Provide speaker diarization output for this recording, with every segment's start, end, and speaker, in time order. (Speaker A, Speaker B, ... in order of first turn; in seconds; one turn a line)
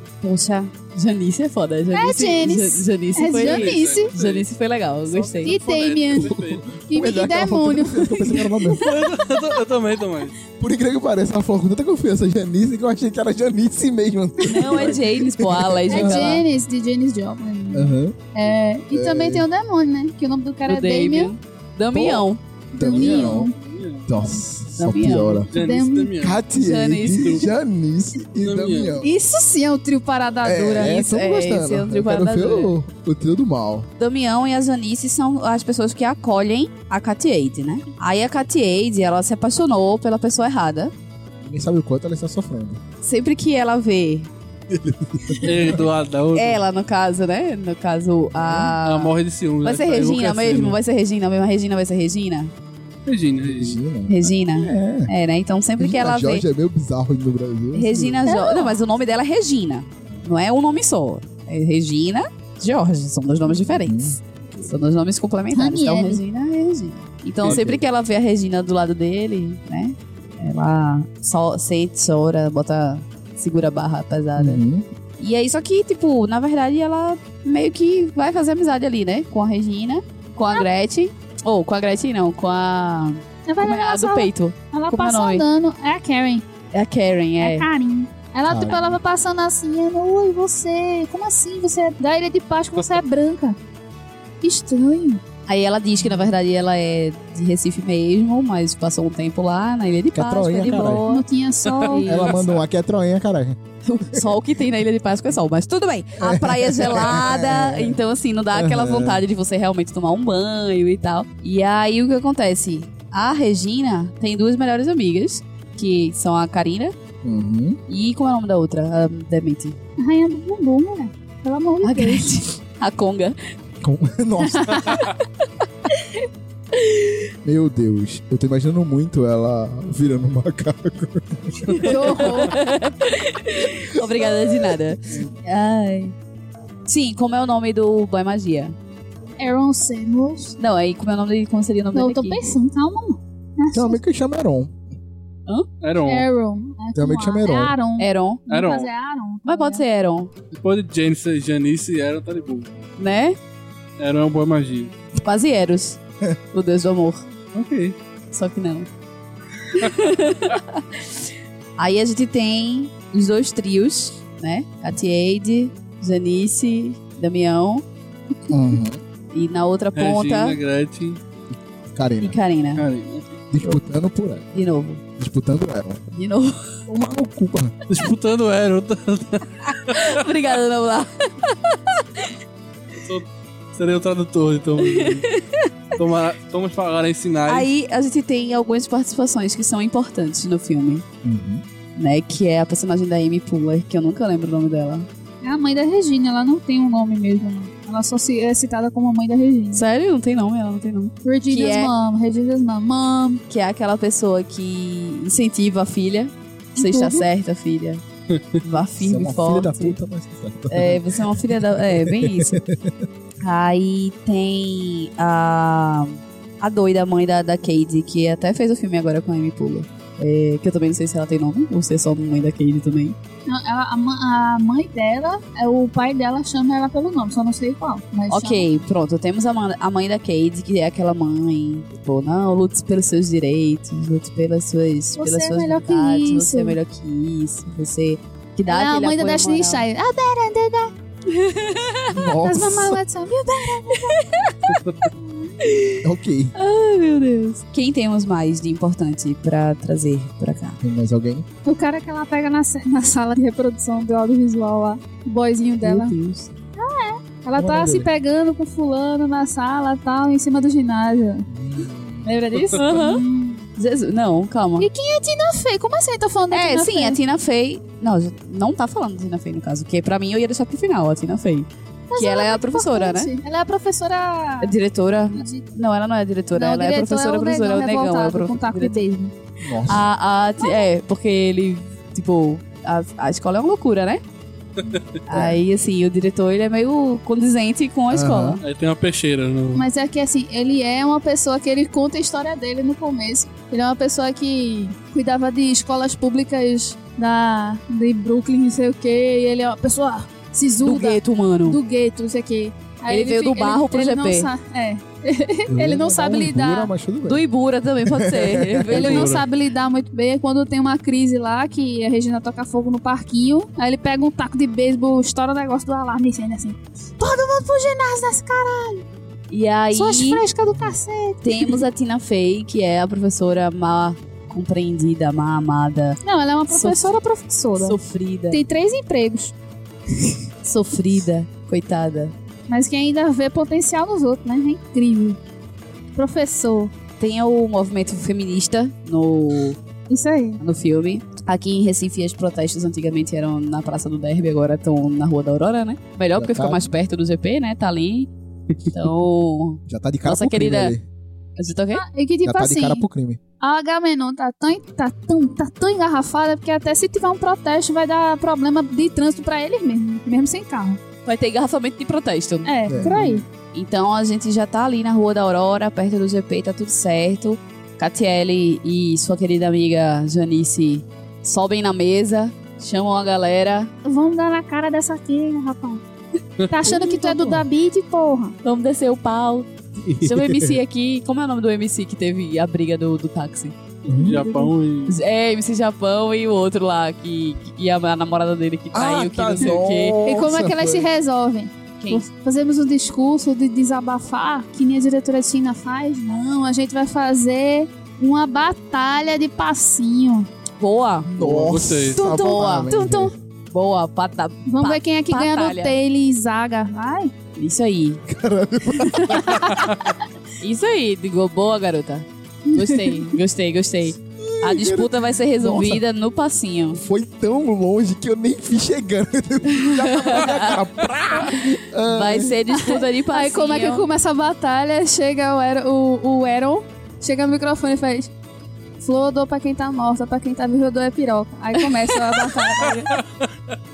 Speaker A: 0.2-5.6
Speaker B: 1.9-4.1
Speaker C: 3.4-4.5
Speaker C: 5.0-6.7
Speaker B: 5.4-6.3
Speaker D: 6.2-8.8
Speaker B: 6.9-9.1
Speaker C: 8.8-10.3
Speaker D: 10.6-16.4
Speaker A: 14.5-16.4
Speaker B: 15.9-21.3
Speaker D: 17.7-18.2
Speaker D: 18.9-19.5
Speaker A: 20.7-22.4
Speaker D: 21.9-23.5
Speaker C: 22.8-24.1
Speaker B: 22.8-23.6
Speaker D: 24.1-25.5
Speaker A: 24.8-25.4
Speaker C: 25.5-26.4
Speaker B: 25.5-26.2
Speaker D: 26.2-29.1
Speaker A: 26.5-27.5
Speaker C: 27.2-27.5
Speaker C: 28.4-29.0
Speaker B: 29.0-31.1
Speaker D: 30.4-33.9
Speaker A: 30.9-32.8
Speaker A: 34.0-40.9
Speaker D: 41.4-42.8
Speaker A: 43.0-44.3
Speaker D: 44.7-45.9
Speaker C: 45.4-46.6
Speaker A: 46.3-52.5
Speaker D: 48.3-48.7
Speaker C: 48.8-50.8
Speaker C: 53.1-53.8
Speaker D: 53.4-55.1
Speaker A: 54.1-56.5
Speaker D: 55.8-58.3
Speaker A: 57.7-74.6
Speaker B: 58.2-58.8
Speaker D: 63.4-64.2
Speaker B: 65.5-66.2
Speaker C: 67.4-67.8
Speaker D: 67.4-67.8
Speaker D: 74.4-74.9
Speaker A: 75.2-85.5
Speaker B: 83.5-86.5
Speaker A: 86.7-87.7
Speaker B: 87.4-93.6
Speaker D: 88.5-89.0
Speaker C: 92.8-93.0
Speaker B: 94.4-95.2
Speaker A: 95.5-101.3
Speaker D: 100.1-101.0
Speaker B: 100.7-102.4
Speaker C: 101.7-102.5
Speaker D: 102.0-103.6
Speaker A: 103.8-116.9
Speaker D: 106.2-108.0
Speaker D: 108.5-109.2
Speaker D: 117.2-117.8
Speaker A: 117.9-119.8
Speaker B: 120.0-122.4
Speaker A: 121.8-123.4
Speaker D: 123.8-125.0
Speaker B: 124.6-125.1
Speaker D: 127.5-132.2
Speaker A: 131.7-136.2
Speaker B: 131.8-132.6
Speaker D: 134.2-135.2
Speaker A: 136.9-138.8
Speaker B: 139.4-140.6
Speaker A: 140.6-142.6
Speaker B: 141.9-144.0
Speaker D: 143.7-144.7
Speaker C: 145.8-146.3
Speaker B: 146.1-149.8
Speaker D: 146.9-147.8
Speaker A: 148.0-148.4
Speaker C: 148.5-148.9
Speaker A: 149.4-150.3
Speaker C: 150.6-152.7
Speaker A: 153.0-153.4
Speaker C: 154.0-154.9
Speaker A: 155.2-156.0
Speaker A: 156.5-157.3
Speaker C: 157.5-158.0
Speaker A: 158.3-158.9
Speaker A: 159.7-161.0
Speaker A: 161.8-167.8
Speaker D: 168.5-169.0
Speaker A: 169.3-170.6
Speaker C: 170.0-171.2
Speaker D: 171.9-172.4
Speaker A: 172.2-172.8
Speaker C: 172.8-173.4
Speaker D: 173.5-174.5
Speaker A: 174.5-175.0
Speaker D: 175.2-176.0
Speaker A: 176.1-176.6
Speaker D: 176.9-177.7
Speaker C: 177.9-180.1
Speaker A: 179.8-182.3
Speaker C: 183.0-185.3
Speaker A: 184.8-185.7
Speaker C: 185.9-187.7
Speaker A: 187.5-191.1
Speaker D: 191.2-191.6
Speaker A: 192.0-195.1
Speaker B: 195.4-199.8
Speaker A: 199.7-201.9
Speaker B: 201.2-203.4
Speaker A: 203.5-208.0
Speaker B: 206.8-207.3
Speaker C: 208.3-208.6
Speaker A: 208.6-210.0
Speaker D: 209.0-212.9
Speaker A: 210.7-212.6
Speaker A: 213.4-223.2
Speaker B: 223.5-228.8
Speaker A: 228.3-239.9
Speaker B: 235.2-236.8
Speaker B: 238.7-240.9
Speaker A: 241.3-242.2
Speaker D: 242.1-243.0
Speaker B: 242.4-244.6
Speaker A: 244.0-244.7
Speaker C: 244.7-245.1
Speaker B: 245.1-245.8
Speaker A: 245.6-246.0
Speaker D: 246.0-246.5
Speaker A: 246.6-250.8
Speaker D: 250.8-251.5
Speaker B: 251.7-256.1
Speaker A: 255.8-256.5
Speaker B: 256.8-261.5
Speaker D: 257.6-258.1
Speaker D: 261.5-262.4
Speaker B: 262.2-263.7
Speaker A: 262.7-263.2
Speaker A: 263.8-264.9
Speaker B: 264.8-267.2
Speaker A: 266.5-273.3
Speaker B: 272.1-274.8
Speaker A: 274.6-279.0
Speaker B: 275.3-275.7
Speaker B: 276.5-279.3
Speaker D: 279.6-280.1
Speaker A: 279.9-284.2
Speaker B: 280.6-280.9
Speaker D: 284.8-285.6
Speaker A: 285.3-288.6
Speaker D: 288.1-288.6
Speaker C: 288.6-289.9
Speaker B: 289.8-306.9
Speaker A: 300.8-301.8
Speaker A: 303.1-304.5
Speaker D: 305.7-307.5
Speaker A: 307.3-309.3
Speaker D: 308.0-309.0
Speaker C: 308.9-309.4
Speaker B: 308.9-319.0
Speaker A: 319.5-320.4
Speaker B: 319.9-321.9
Speaker D: 320.7-321.0
Speaker A: 321.4-327.1
Speaker B: 326.2-328.0
Speaker A: 327.8-328.6
Speaker B: 328.5-329.5
Speaker A: 330.6-332.3
Speaker B: 332.7-335.4
Speaker B: 336.1-336.9
Speaker A: 337.2-339.8
Speaker B: 340.1-340.6
Speaker A: 340.6-348.3
Speaker D: 346.4-346.9
Speaker A: 348.9-350.9
Speaker D: 349.9-351.1
Speaker A: 351.6-352.1
Speaker B: 352.0-353.1
Speaker D: 352.4-353.4
Speaker B: 353.6-361.0
Speaker A: 361.2-363.2
Speaker B: 362.6-363.4
Speaker D: 362.9-363.4
Speaker A: 363.7-373.9
Speaker B: 374.0-376.0
Speaker C: 376.6-377.0
Speaker B: 376.7-378.6
Speaker D: 377.1-377.7
Speaker A: 378.6-379.7
Speaker D: 380.0-380.8
Speaker A: 380.2-383.8
Speaker C: 384.0-385.1
Speaker D: 384.1-384.4
Speaker A: 384.3-390.2
Speaker D: 388.9-391.1
Speaker B: 389.6-400.5
Speaker A: 392.0-392.3
Speaker A: 400.8-401.3
Speaker D: 401.3-403.4
Speaker C: 401.4-402.2
Speaker A: 402.1-406.0
Speaker B: 402.2-403.2
Speaker B: 404.7-407.3
Speaker A: 407.6-408.2
Speaker D: 408.3-409.8
Speaker A: 409.0-409.3
Speaker B: 409.4-409.9
Speaker A: 410.6-417.0
Speaker B: 412.7-413.4
Speaker D: 414.4-416.0
Speaker D: 416.9-422.6
Speaker A: 419.7-420.8
Speaker A: 421.5-424.1
Speaker B: 422.7-428.3
Speaker B: 429.0-433.2
Speaker A: 431.8-432.2
Speaker C: 432.8-433.5